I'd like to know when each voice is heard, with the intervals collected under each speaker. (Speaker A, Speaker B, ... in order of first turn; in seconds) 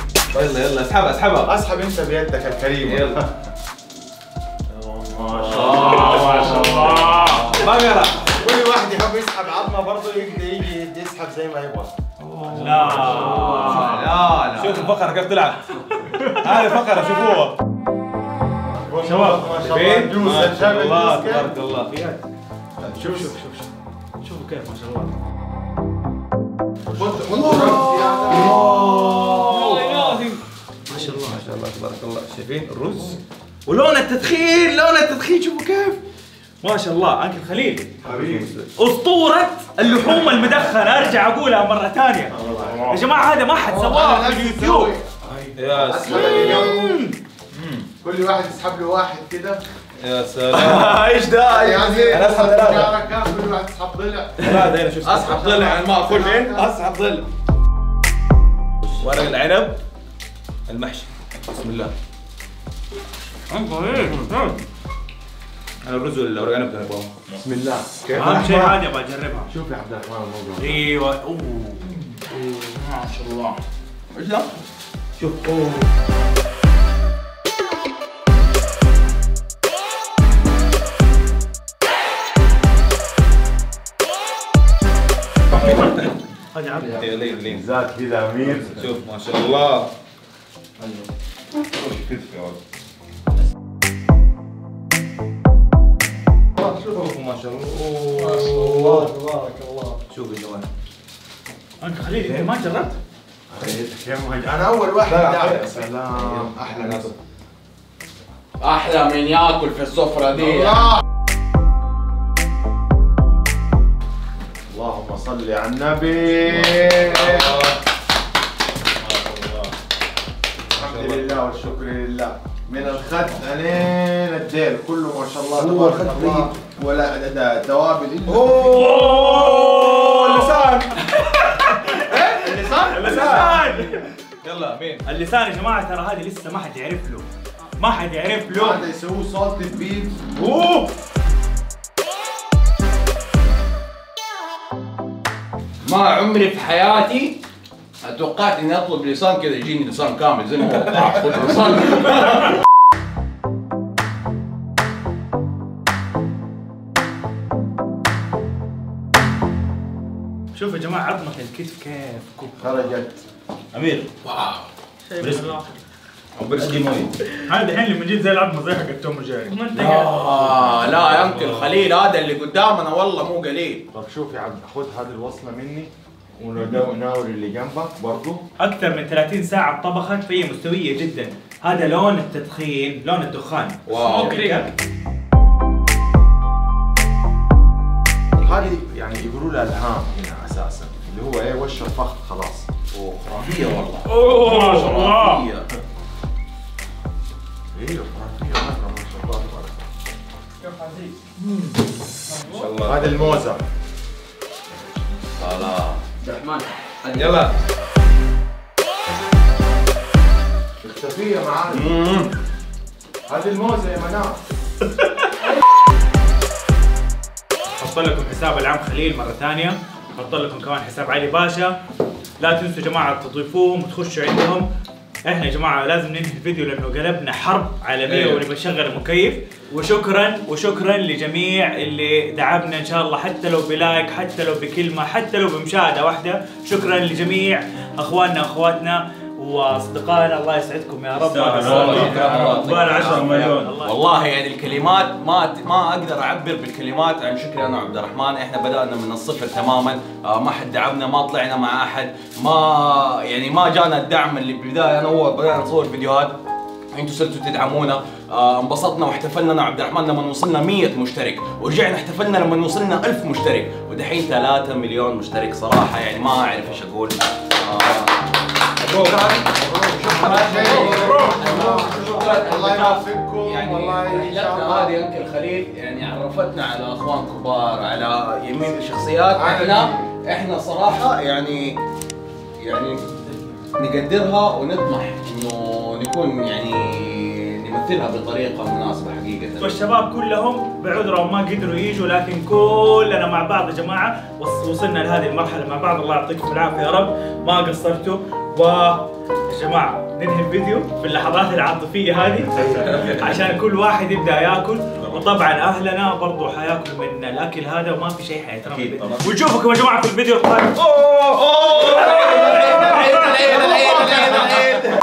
Speaker A: 0.3-1.5, 2.8-3.2, 5.6-6.5, 7.5-8.3, 12.2-13.8, 14.5-17.6, 19.6-21.9, 27.3-30.3, 31.0-36.0, 38.1-38.7, 45.5-46.8, 50.0-51.1, 52.1-53.0, 54.4-55.5, 58.9-59.8, 60.7-61.9, 65.8-67.5, 75.2-75.9, 85.5-86.1, 86.9-87.7, 88.4-89.9, 91.7-92.6, 96.6-99.3, 100.1-100.7, 105.1-107.1, 116.4-117.8, 119.0-119.7, 120.8-121.4, 125.5-126.6, 128.3-131.0, 133.0-133.5, 134.4-135.0, 140.4-140.9, 163.7-164.1, 165.2-165.6, 166.4-167.1, 170.9-171.8, 202.5-203.5, 207.2-207.5, 228.1-228.4, 241.2-243.7, 268.8-269.3, 302.6-303.5, 308.6-309.2, 310.8-314.6
Speaker B: 1.4-3.3, 4.7-6.5, 8.3-12.0, 18.7-21.5, 22.8-23.3, 26.9-28.7, 38.0-38.5, 42.3-47.1, 48.0-49.6, 51.4-54.6, 55.3-56.7, 67.4-68.8, 69.5-70.8, 87.5-88.9, 103.5-107.1, 114.7-117.6, 120.7-128.7, 131.9-133.7, 138.5-140.2, 162.6-163.2, 173.9-178.4, 188.4-192.7, 197.7-199.8, 202.8-203.6, 210.8-212.0, 213.3-214.4, 268.9-275.0, 279.3-280.1
Speaker C: 5.6-7.5, 13.0-15.0, 47.5-47.9, 50.5-52.2, 54.4-57.3, 64.0-64.3, 74.1-74.5, 108.6-110.9, 145.8-147.4, 148.0-152.5, 164.2-164.7, 169.7-173.8, 183.9-184.7, 188.4-188.7, 192.9-195.7, 205.4-207.5, 211.7-212.3, 241.6-256.4, 256.9-268.1, 269.9-281.8, 282.6-283.0, 283.8-289.7, 312.1-314.8
Speaker D: 5.7-7.4, 12.4-14.1, 15.9-16.6, 19.0-19.7, 20.9-22.2, 22.9-23.7, 24.2-25.1, 29.2-31.6, 33.7-34.1, 36.6-38.0, 38.8-42.4, 42.9-45.0, 46.1-47.2, 63.5-64.4, 68.2-69.5, 70.6-73.6, 86.5-87.1, 101.8-103.0, 128.6-132.1, 132.8-134.1, 135.0-137.3, 137.8-138.8, 160.5-162.9, 165.1-165.8, 167.4-170.3, 178.6-184.7, 194.1-195.4, 200.7-201.6, 202.3-202.7, 217.8-221.8, 222.4-224.7, 225.3-244.0, 270.8-271.4, 289.6-310.8, 311.8-314.7